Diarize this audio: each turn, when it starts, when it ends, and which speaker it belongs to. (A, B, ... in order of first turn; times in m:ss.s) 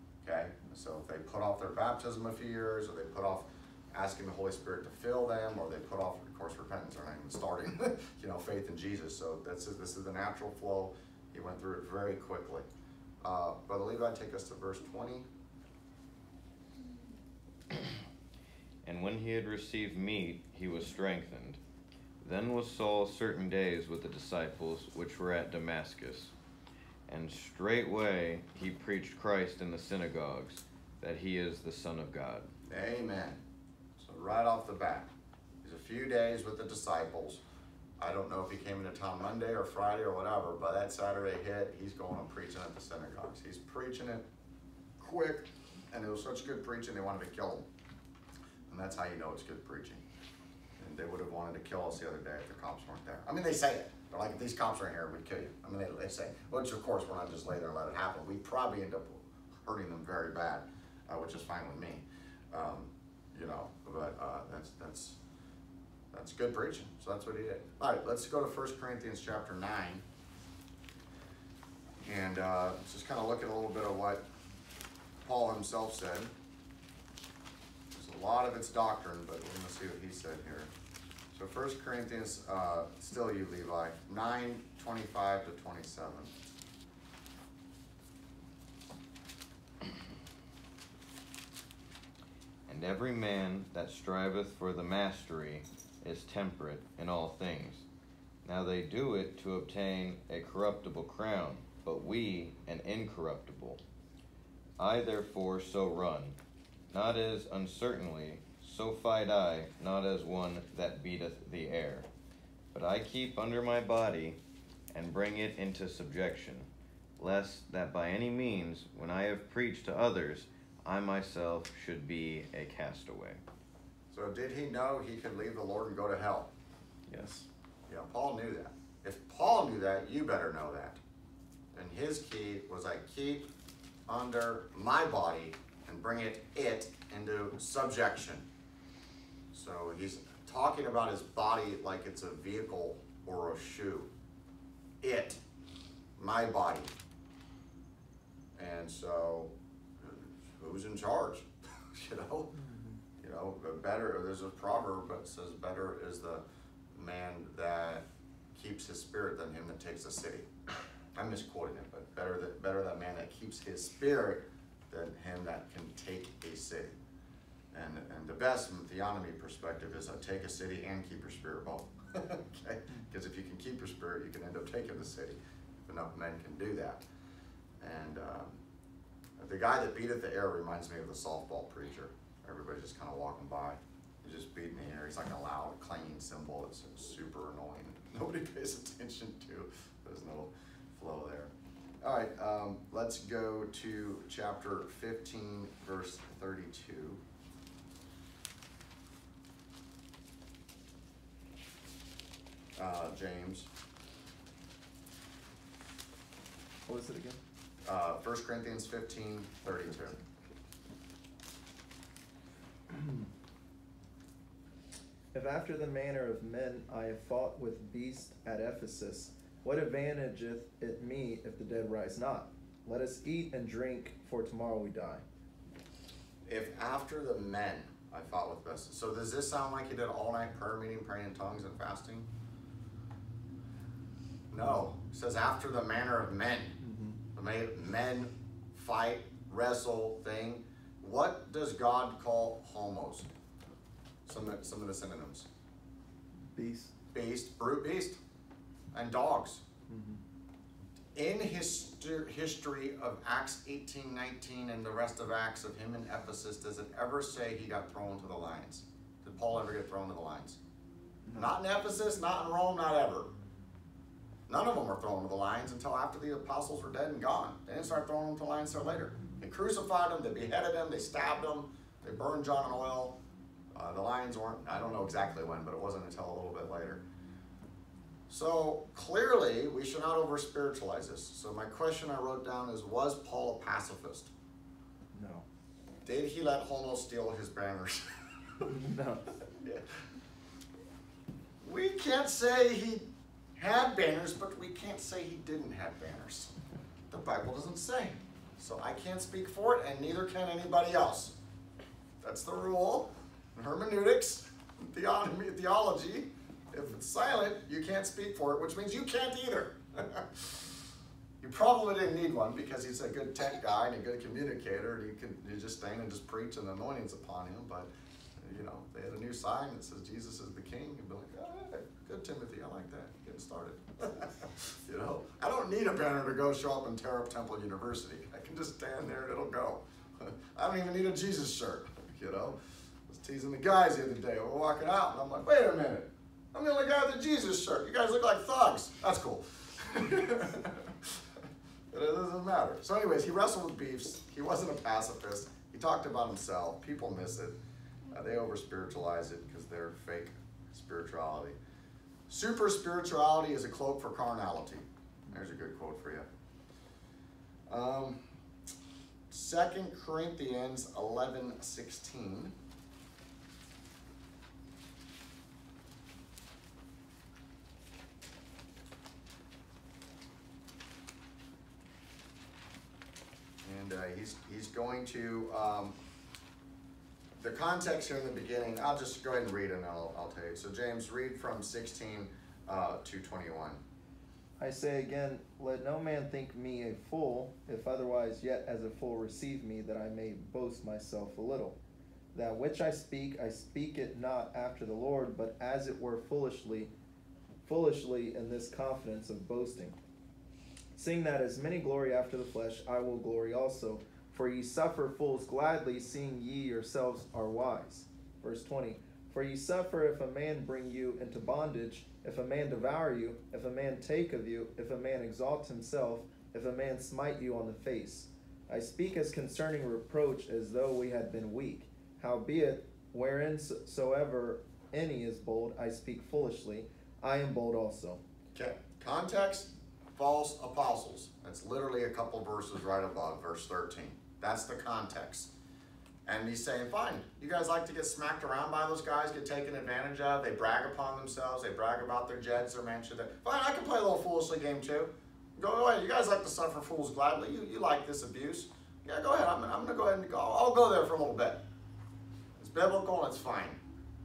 0:00.2-0:12.6 A
0:13.2-0:15.3 A
0:18.8-0:21.6 B
0:22.2-0:26.3 B
0:27.1-0:32.5 B
0:32.7-0:33.4 A
0:34.0-0:35.1 A
0:35.6-0:37.4 A
0:38.0-0:44.2 A
0:45.0-0:47.7 A
0:48.7-0:50.0 A
0:50.8-1:05.2 A
1:06.1-1:10.0 A
1:12.0-1:14.2 A
1:15.2-1:16.3 A
1:17.9-1:20.7 A
1:21.3-1:26.3 A
1:32.7-1:37.8 B
1:38.4-1:43.8 B
1:44.8-1:46.4 B
1:46.9-1:52.1 B
1:52.7-1:54.4 B
1:54.9-1:56.7 B
1:57.2-2:03.4 B
2:04.1-2:06.5 A
2:07.1-2:07.4 C
2:07.9-2:11.0 A
2:11.7-2:13.5 A
2:14.1-2:18.4 A
2:19.5-2:24.1 A
2:25.0-2:25.4 A
2:26.2-2:26.9 A
2:28.6-2:32.5 A
2:32.5-2:33.0 C
2:33.2-2:38.0 A
2:38.5-2:40.5 A
2:41.1-2:46.9 A
2:47.7-2:57.0 A
2:57.8-2:58.6 A
2:59.4-3:11.5 A
3:12.0-3:17.2 A
3:22.8-3:23.7 A
3:26.8-3:27.4 C
3:27.8-3:30.2 A
3:29.7-3:30.6 C
3:32.9-3:33.2 C
3:35.3-3:45.2 C
3:46.4-3:52.3 A
3:54.5-3:56.8 A
3:56.8-3:57.2 C
3:57.3-4:03.3 A
4:04.3-4:05.5 A
4:06.5-4:06.9 C
4:07.1-4:08.2 A
4:08.9-4:09.6 A
4:09.9-4:10.2 C
4:11.2-4:20.6 A
4:21.2-4:21.5 C
4:21.4-4:23.3 A
4:24.5-4:33.2 A
4:33.7-4:37.0 A
4:38.3-4:44.3 A
4:45.1-4:45.4 C
4:46.0-4:48.1 A
4:48.7-4:49.4 C
4:49.6-4:49.8 A
4:51.6-4:56.5 A
4:57.1-5:01.3 A
5:02.2-5:10.6 A
5:11.4-5:41.2 A
5:41.9-5:47.5 A
5:48.1-5:51.6 A
5:52.3-5:56.2 A
5:57.7-5:58.2 A
5:59.3-6:02.5 A
6:13.6-6:15.9 A
6:17.4-6:23.8 A
6:24.6-6:31.8 C
6:32.3-6:36.9 C
6:37.6-6:40.0 C
6:40.9-7:08.2 C
7:08.5-7:15.5 A
7:16.2-7:31.6 A
7:32.6-7:33.8 A